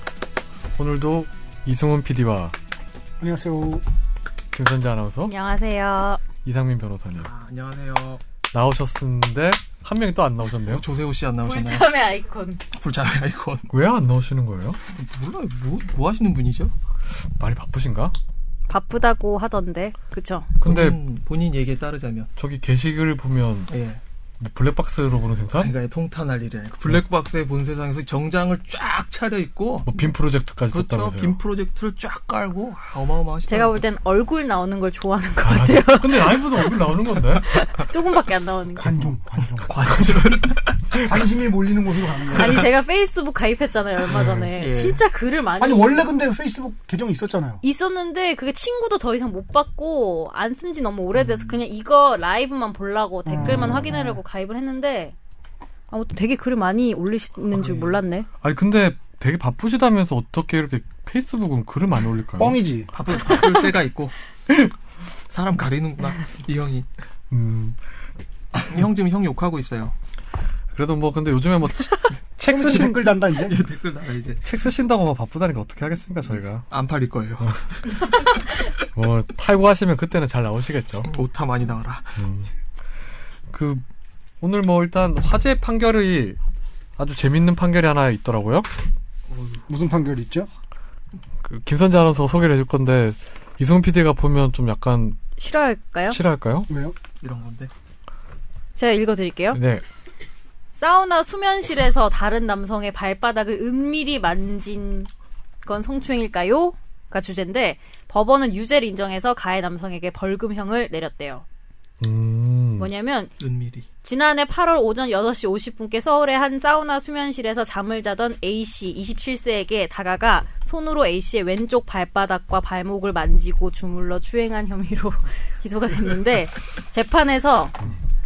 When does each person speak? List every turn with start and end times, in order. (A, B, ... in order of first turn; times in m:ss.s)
0:00.8-0:02.5 A
0:03.2-0:03.8 B
0:04.5-0:05.3 A
0:05.3-0:06.2 C
0:06.4-0:07.3 A
0:07.2-0:08.2 D
0:08.5-0:10.8 A
0:10.6-0:11.9 D
0:11.4-0:12.6 C
0:12.7-0:13.7 D
0:13.7-0:14.8 A
0:14.9-0:16.7 D
0:17.4-0:18.2 A
0:18.7-0:20.6 C
0:20.6-0:21.0 A
0:20.6-0:22.3 D
0:22.4-0:23.7 A
0:23.7-0:24.0 D
0:24.4-0:25.7 A
0:25.5-0:30.2 D
0:29.9-0:31.4 A
0:30.7-0:33.8 D
0:33.5-0:39.1 C
0:35.4-0:37.5 A
0:38.8-0:39.8 B
0:39.6-0:41.0 D
0:41.1-0:42.7 B
0:42.4-0:46.1 C
0:44.1-0:44.5 A
0:44.5-0:45.0 D
0:45.6-0:47.6 B
0:47.6-0:55.2 C
0:51.2-0:51.6 D
0:53.2-0:54.2 B
0:53.4-0:54.1 D
0:55.9-0:58.3 C
0:57.5-0:58.0 D
0:58.4-1:02.6 A
1:02.4-1:02.9 B
1:02.9-1:04.1 D
1:05.3-1:06.9 D
1:07.3-1:07.8 A
1:08.6-1:10.0 D
1:10.7-1:13.1 A
1:12.5-1:13.6 B
1:12.7-1:14.4 D
1:14.4-1:16.7 A
1:16.7-1:18.2 D
1:18.8-1:21.1 A
1:21.0-1:22.2 D
1:22.2-1:22.5 A
1:23.5-1:23.8 A
1:24.4-1:26.4 A
1:27.0-1:28.7 A
1:29.3-1:29.6 D
1:29.7-1:30.5 B
1:31.4-1:35.2 A
1:35.4-1:36.2 C
1:36.1-1:36.7 A
1:36.7-1:37.0 B
1:37.2-1:37.7 D
1:38.8-1:39.6 C
1:39.5-1:39.8 A
1:40.8-1:45.1 C
1:45.6-1:51.4 C
1:52.0-1:52.9 A
1:52.8-1:53.3 C
1:53.4-1:53.9 D
1:54.0-2:07.8 C